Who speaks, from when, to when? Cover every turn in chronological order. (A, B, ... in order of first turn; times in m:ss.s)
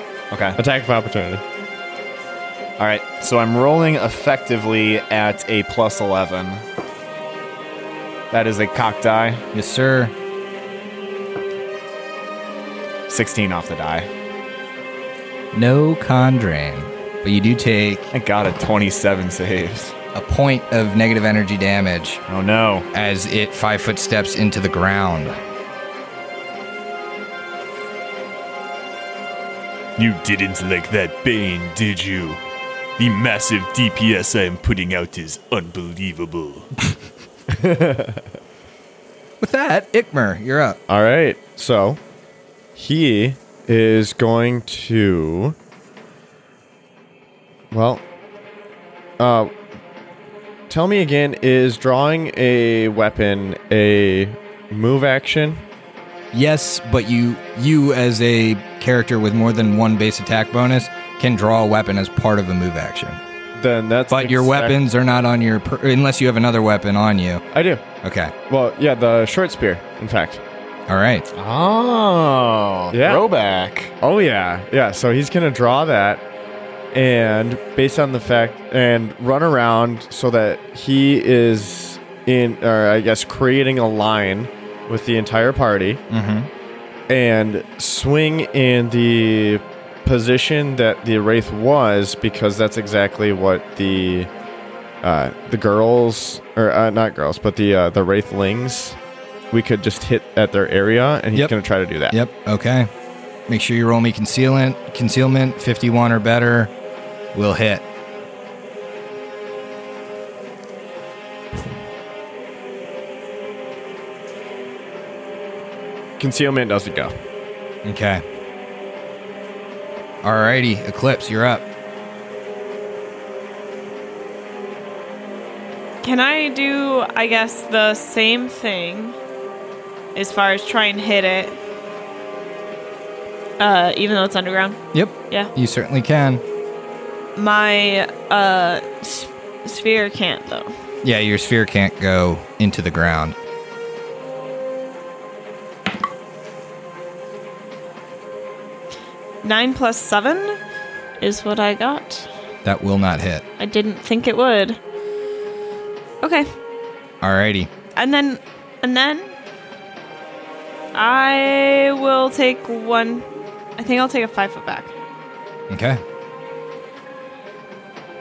0:00.3-0:00.6 A
0:00.6-0:01.4 B
0:02.8-0:06.6 A
0:08.3-0:09.4 A
0:09.5-0:10.1 C
0:13.1-0:14.1 A
0:15.5-0:18.1 C
0:18.1-0:19.9 A
0:20.2-0:22.2 C
0:22.3-0:22.9 A
0:22.9-0:25.4 C
0:30.0-0:32.4 D
0:33.0-0:36.7 D
0:37.5-0:38.2 B
0:39.4-0:40.8 C
0:40.9-0:42.0 B
0:42.8-0:45.6 B
0:47.7-0:48.0 B
0:49.2-0:49.5 B
0:50.7-0:55.6 B
0:56.3-1:03.2 C
1:03.6-1:04.8 B
1:04.1-1:07.4 C
1:07.5-1:07.8 B
1:08.0-1:08.3 C
1:08.5-1:10.4 B
1:10.9-1:11.3 C
1:11.3-1:13.9 A
1:12.9-1:13.3 B
1:14.0-1:16.2 B
1:16.9-1:26.0 B
1:26.1-1:26.5 C
1:27.1-1:34.3 B
1:35.0-1:39.0 B
1:39.5-1:42.2 B
1:42.1-1:42.9 C
1:43.5-1:46.7 C
1:47.3-1:47.8 C
1:56.2-1:57.1 B
1:57.8-1:58.2 C
2:00.2-2:01.6 C
2:06.0-2:09.2 E
2:10.2-2:11.6 E
2:13.6-2:15.5 E
2:14.9-2:16.4 C
2:17.4-2:20.7 E
2:21.0-2:23.4 C
2:29.4-2:30.6 E
2:31.2-2:32.3 E
2:32.6-2:33.4 C
2:33.6-2:34.8 E
2:36.2-2:36.5 E
2:37.2-2:37.7 C
2:38.0-2:39.3 E
2:41.0-2:43.2 E
2:43.8-2:44.9 E
2:45.7-2:46.0 C